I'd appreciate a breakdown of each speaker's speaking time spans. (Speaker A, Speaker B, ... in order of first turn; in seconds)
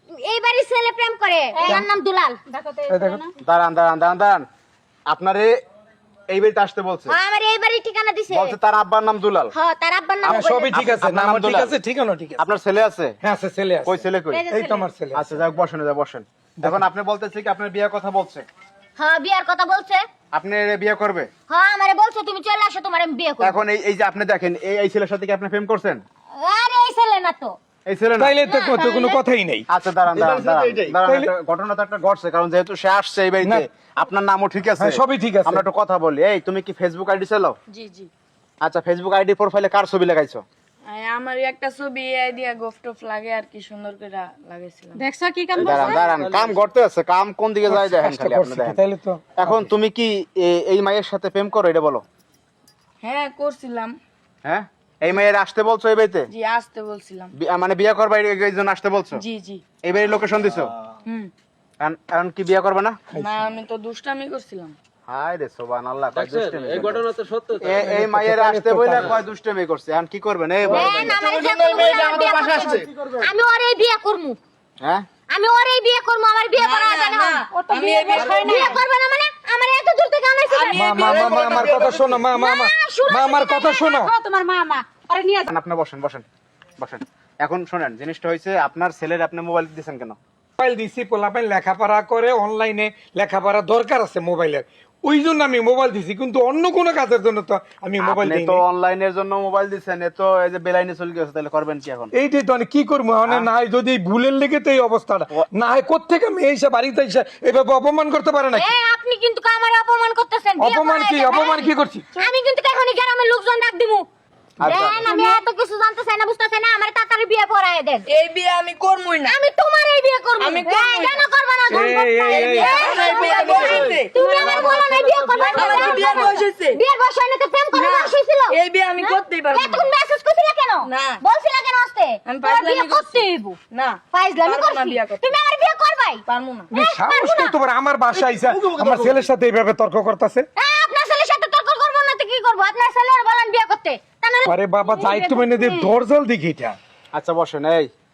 Speaker A: 0.2-2.4, 7.1-8.6, 9.5-10.7, 14.3-14.9, 19.0-20.0, 21.5-23.6, 26.4-27.6, 28.4-29.2, 70.7-74.4, 75.3-77.4, 78.1-81.6, 82.3-83.9, 108.6-114.1, 114.7-118.1, 119.3-133.6, 134.1-137.6, 140.6-144.6
Speaker B: 1.6-1.8, 2.5-3.3, 45.0-46.1, 77.5-78.8, 83.8-85.5, 115.1-115.4, 122.7-123.5, 124.2-126.0, 144.8-145.9
Speaker C: 2.9-3.2, 10.3-12.4, 13.2-15.3, 28.2-29.6, 31.0-31.3, 34.8-35.6, 47.7-49.7, 63.1-63.5, 67.7-69.2, 80.7-84.1, 90.6-98.6, 102.1-108.8, 110.6-112.1, 114.6-115.1, 121.7-122.8, 136.7-140.5, 144.5-146.8
Speaker D: 3.4-4.5, 5.1-5.5, 6.3-7.2, 8.3-9.5, 10.2-11.8, 12.4-13.2, 13.8-14.4, 15.1-18.4, 20.3-21.3, 23.4-26.0, 27.9-28.3, 29.7-37.6, 38.6-40.4, 45.5-48.8, 49.4-52.0, 54.5-56.3, 57.3-59.2, 59.8-60.7, 61.8-63.0, 65.1-67.1, 67.6-71.2, 85.5-86.2, 86.8-90.2, 98.0-102.1, 114.6-115.0, 147.2-147.9
Speaker E: 30.1-31.0, 45.6-46.6, 66.2-67.8, 70.8-72.8, 81.2-81.9, 123.4-124.0, 124.5-126.0, 138.5-139.2
Speaker F: 37.7-38.1, 40.9-45.0, 53.0-53.9, 56.3-57.3, 59.2-59.6, 63.2-64.8, 76.6-78.8, 80.5-82.0, 118.1-119.4, 120.4-121.2, 122.3-124.6, 125.5-126.8, 127.7-129.8, 130.8-131.2, 132.3-135.3, 136.3-136.7